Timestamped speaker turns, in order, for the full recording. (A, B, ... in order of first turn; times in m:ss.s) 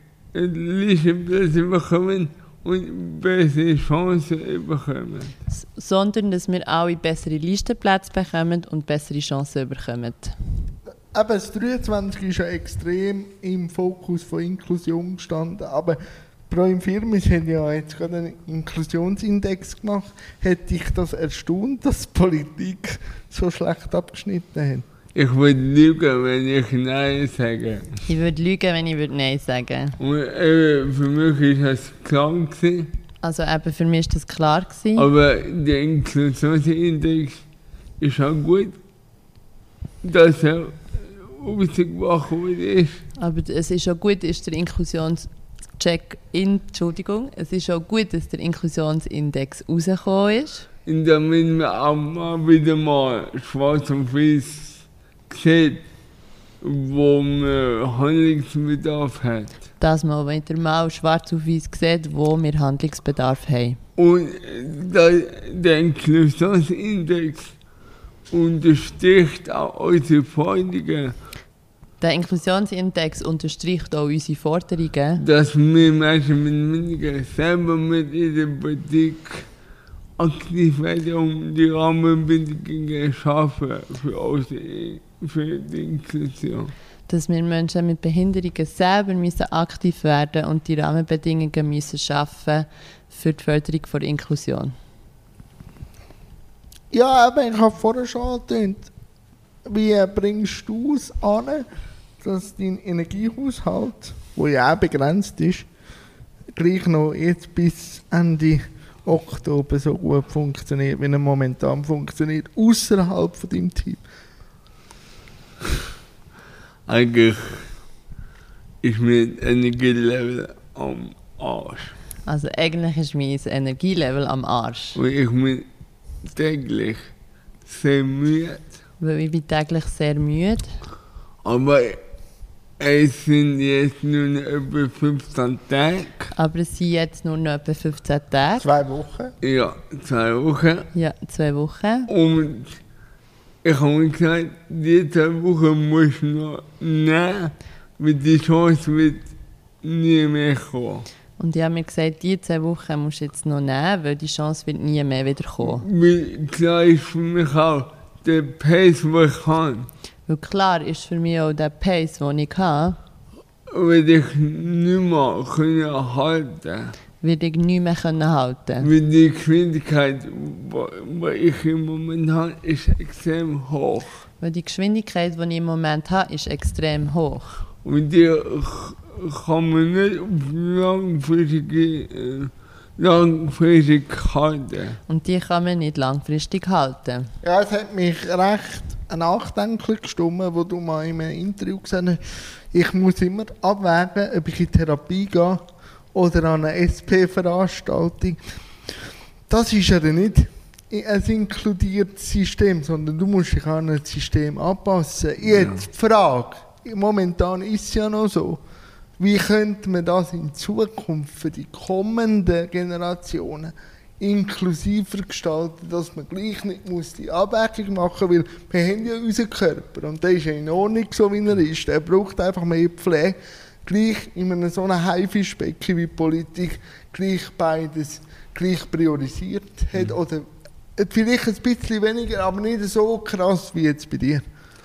0:00.3-0:05.3 A
0:05.5-0:10.4 B
0:11.1-0:24.9 C
0:25.2-0:28.0 A
0:28.1-0:30.0 B
0:30.0-0:32.9 A
0:33.2-0:35.1 B
0:35.0-0:37.4 A
0:38.0-0:38.8 A
0:40.0-0:43.0 A
0:43.2-0:50.7 B
0:50.9-0:55.8 A
0:56.6-0:59.6 A
0:59.8-1:03.8 B
1:04.0-1:07.6 A
1:08.3-1:11.2 A
1:12.0-1:15.2 B
1:15.2-1:19.5 A
1:20.2-1:26.7 A
1:27.1-1:34.7 B
1:36.9-1:38.9 C
1:39.7-1:41.7 C
1:42.2-1:45.7 C
1:46.6-1:54.0 C
1:56.9-1:57.7 A
1:58.8-2:02.0 A
2:02.3-2:05.0 B
2:05.0-2:05.7 A
2:06.2-2:07.1 A
2:07.6-2:08.7 A
2:09.0-2:10.7 B
2:11.4-2:12.0 A
2:12.8-2:16.3 A
2:16.3-2:18.6 B
2:18.6-2:19.3 C
2:19.4-2:20.9 A
2:20.9-2:22.1 B
2:22.1-2:22.8 A
2:23.6-2:29.3 A
2:29.8-2:31.1 A
2:31.4-2:35.9 B
2:35.6-2:39.9 A
2:40.3-2:43.0 B
2:43.7-2:47.0 A
2:47.2-2:48.9 B
2:48.8-2:54.2 A
2:54.4-2:57.6 B
2:57.8-3:05.0 A
3:05.1-3:07.3 B
3:07.4-3:18.4 C
3:19.5-3:28.6 C
3:25.5-3:25.8 A
3:29.2-3:54.4 C